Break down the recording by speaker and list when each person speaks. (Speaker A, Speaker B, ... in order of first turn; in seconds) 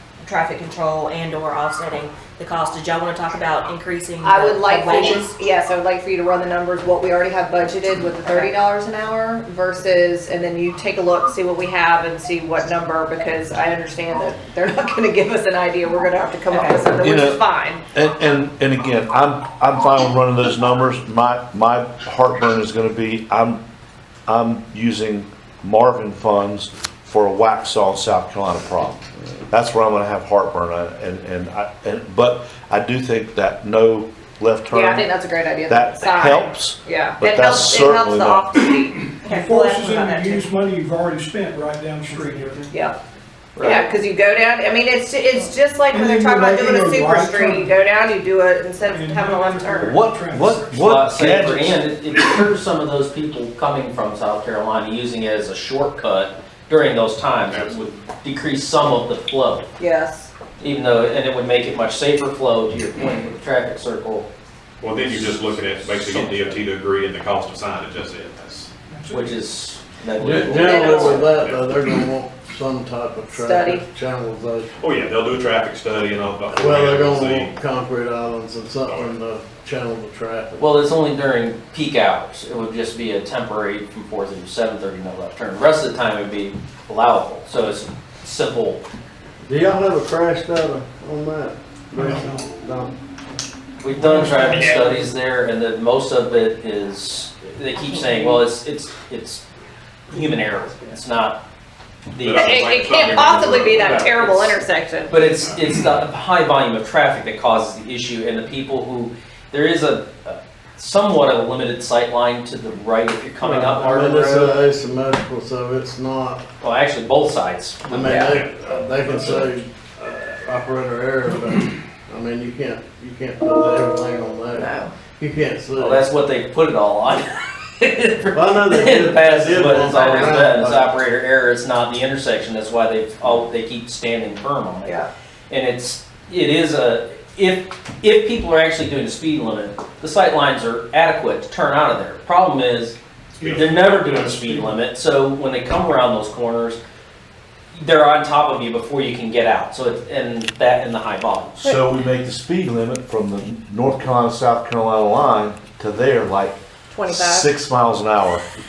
Speaker A: 0.2-5.3, 8.2-8.5, 16.5-16.9, 39.2-40.5, 42.1-42.7
Speaker B: 4.2-17.8, 34.7-39.1, 43.6-49.9, 59.8-60.3, 70.6-71.3, 73.3-73.8, 102.3-105.2, 124.5-124.9, 129.8-130.4, 156.9-157.5
Speaker C: 17.0-17.4, 17.9-23.6, 24.3-35.1, 35.7-38.5, 49.8-51.8, 151.6-158.4
Speaker D: 39.2-42.6, 45.9-47.7, 48.8-50.8, 68.9-69.3, 92.0-92.5, 93.9-95.0, 97.8-98.4, 143.4-144.7
Speaker E: 43.5-43.9, 50.8-59.7, 60.6-64.3, 65.1-66.6, 69.1-71.2, 80.6-88.8, 93.8-99.4, 100.1-101.4, 102.1-102.5, 103.8-104.6, 105.1-114.6, 116.6-119.5, 125.8-146.8, 147.7-151.8
Speaker F: 57.5-57.9, 64.8-68.7, 71.3-71.8, 74.8-77.5, 78.8-79.2, 102.2-104.0, 118.3-118.7, 143.4-144.3
Speaker G: 70.2-74.7, 76.5-80.7, 89.5-92.9, 113.4-116.4, 117.9-126.1, 128.3-130.8